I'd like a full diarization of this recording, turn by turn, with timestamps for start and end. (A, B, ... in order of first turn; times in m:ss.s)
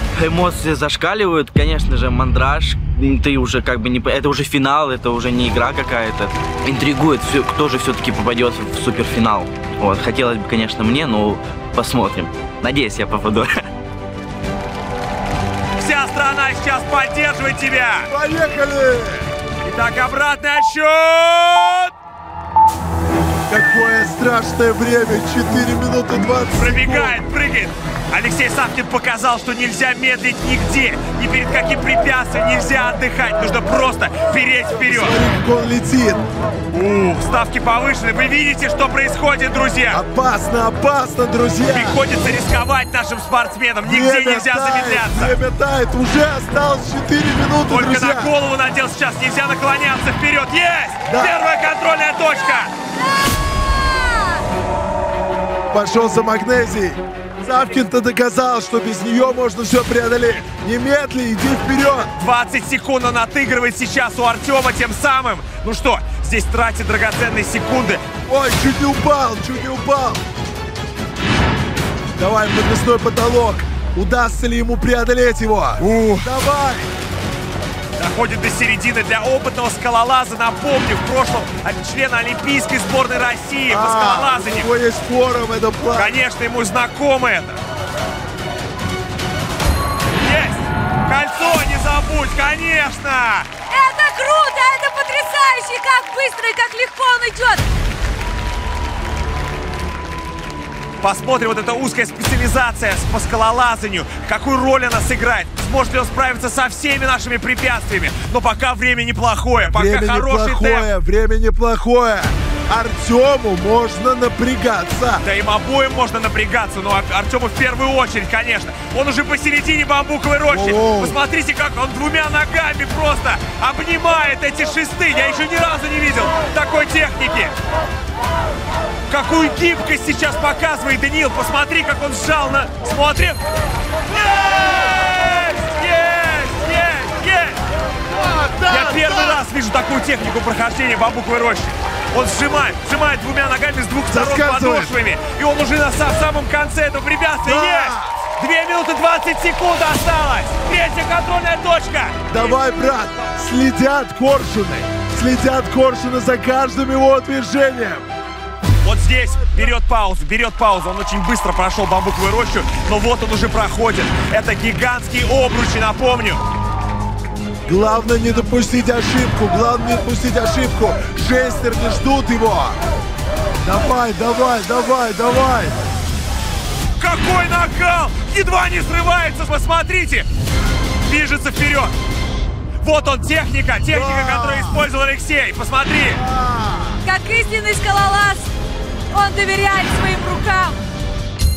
0:00.2-0:13.5 A
0:15.8-0:18.1 B
0:18.1-0:19.3 C
0:19.6-0:21.9 B
0:23.5-0:27.2 C
0:26.6-0:35.2 B
0:34.6-0:36.2 C
0:36.7-0:40.0 B
0:39.9-0:42.0 C
0:41.7-0:45.3 B
0:43.8-0:48.3 C
0:47.7-0:52.7 B
0:51.1-0:51.3 C
0:52.9-0:54.4 D
0:55.7-1:02.1 C
1:02.1-1:08.0 B
1:08.3-1:10.2 C
1:12.2-1:16.9 C
1:15.8-1:16.3 B
1:18.0-1:24.7 B
1:23.7-1:26.2 C
1:25.9-1:27.6 B
1:30.2-1:33.5 B
1:33.7-1:37.6 D
1:41.0-1:50.8 B
1:49.7-1:55.2 C
1:55.2-2:07.5 B
2:00.5-2:01.2 C
2:09.1-2:13.4 B
2:14.1-2:17.6 B
2:18.1-2:19.4 C
2:18.7-2:32.5 B
2:24.1-2:24.9 C
2:27.4-2:28.1 C
2:32.3-2:38.0 C
2:38.8-2:46.4 B
2:47.6-2:52.8 C
2:53.6-2:55.8 C
2:57.0-3:00.2 B
3:01.0-3:01.9 B
3:02.8-3:06.2 B
3:03.9-3:04.8 C
3:06.2-3:07.0 C
3:07.0-3:08.5 D
3:09.1-3:10.8 D